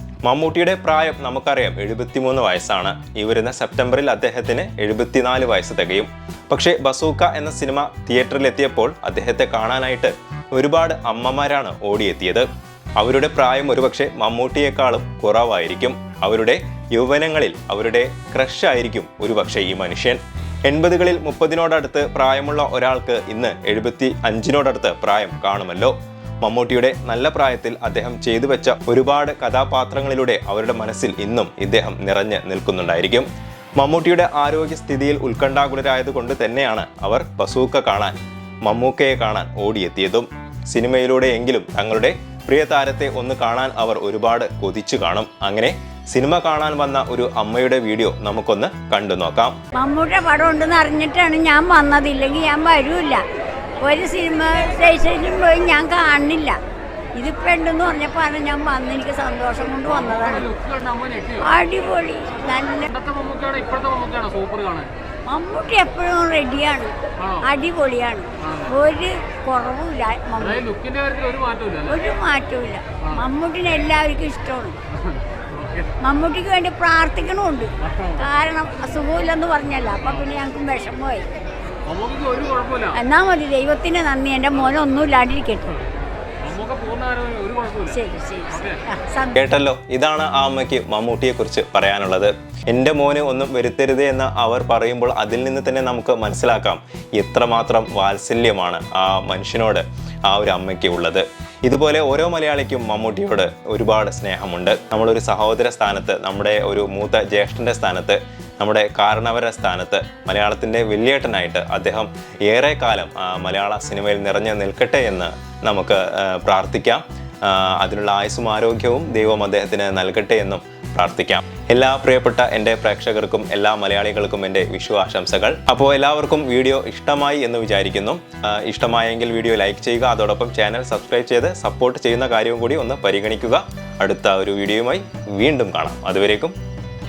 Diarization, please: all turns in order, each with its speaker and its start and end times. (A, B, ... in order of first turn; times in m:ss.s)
0:00.2-0:12.5 A
0:13.0-0:49.6 A
0:49.8-0:53.2 B
0:53.8-0:56.6 B
0:57.2-1:00.5 B
0:59.8-1:01.6 C
1:01.4-1:02.9 B
1:02.8-1:04.9 C
1:05.3-1:10.6 B
1:07.2-1:07.5 C
1:08.4-1:08.7 C
1:10.4-1:12.0 C
1:11.9-1:14.8 B
1:14.9-1:15.9 C
1:16.0-1:21.2 B
1:17.8-1:18.3 C
1:20.0-1:20.3 C
1:21.8-1:23.0 C
1:22.9-1:25.7 B
1:26.4-1:28.8 C
1:27.9-1:29.6 B
1:29.3-2:16.5 A